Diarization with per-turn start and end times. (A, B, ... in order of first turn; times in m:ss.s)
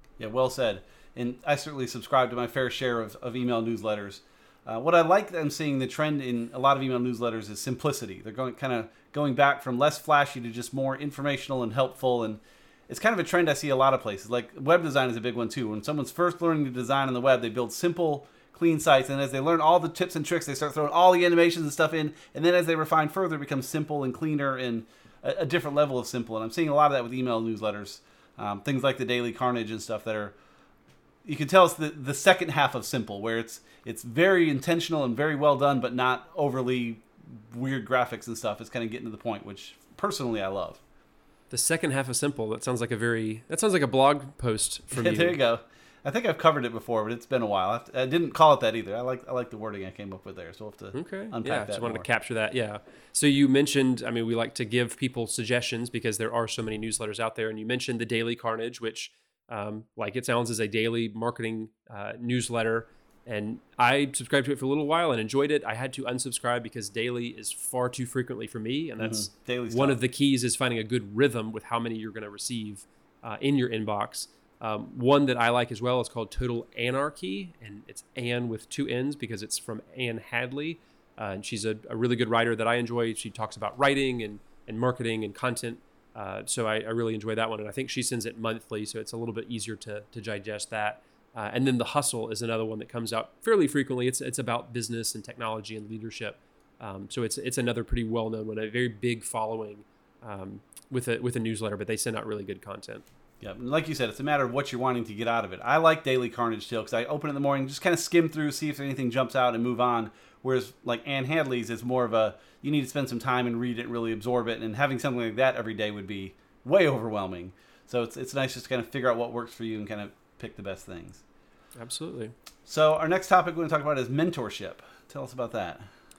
0:00.2-0:30.4 A
0:31.2-0:40.8 A
0:41.5-0:45.4 B
0:44.9-0:52.1 A
0:50.9-1:43.0 B
1:09.0-1:10.0 A
1:43.4-2:01.2 A
2:01.8-2:02.3 B
2:02.7-2:05.9 A